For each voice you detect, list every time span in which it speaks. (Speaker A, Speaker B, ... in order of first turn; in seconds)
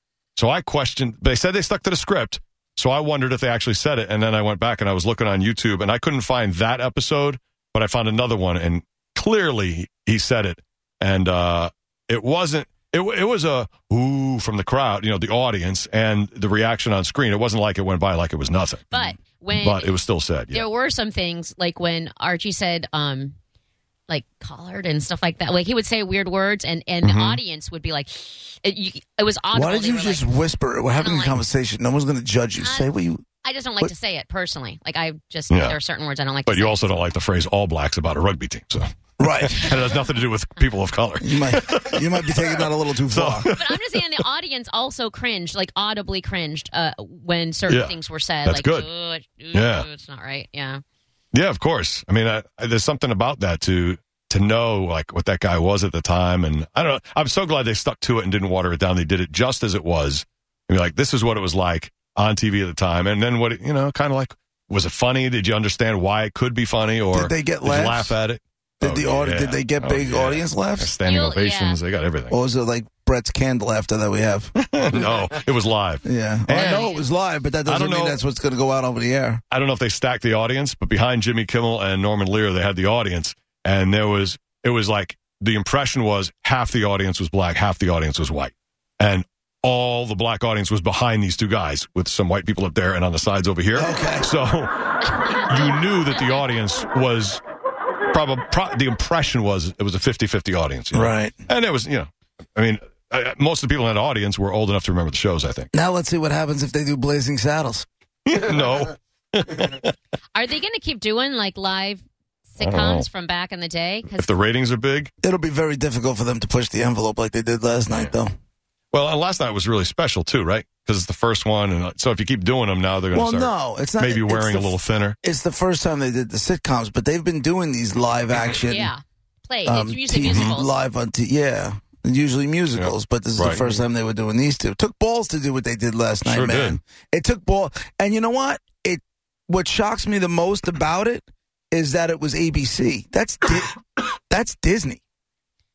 Speaker A: 0.4-19.0, 19.6-20.7, 27.0-27.4, 35.5-35.8, 36.5-44.2, 47.7-48.9, 49.5-49.9, 51.3-72.4, 74.6-77.0, 77.7-78.2, 79.5-97.4, 98.1-105.7, 108.3-109.9, 112.6-113.1, 114.1-115.1, 118.9-125.2, 130.2-130.5, 132.8-133.8, 136.2-136.8
Speaker B: 18.9-20.0, 20.5-23.4, 24.1-30.4, 30.9-31.4, 32.6-32.9, 33.4-36.9, 43.6-50.8, 71.0-71.8, 76.5-77.1, 110.3-114.3, 128.7-130.7
Speaker C: 29.5-33.2, 39.2-39.6, 41.2-43.5, 67.1-68.2, 68.8-70.9, 72.3-74.5, 76.0-79.4, 93.8-94.3, 100.9-101.4, 105.7-107.9, 115.2-118.3, 123.1-128.9, 129.7-145.0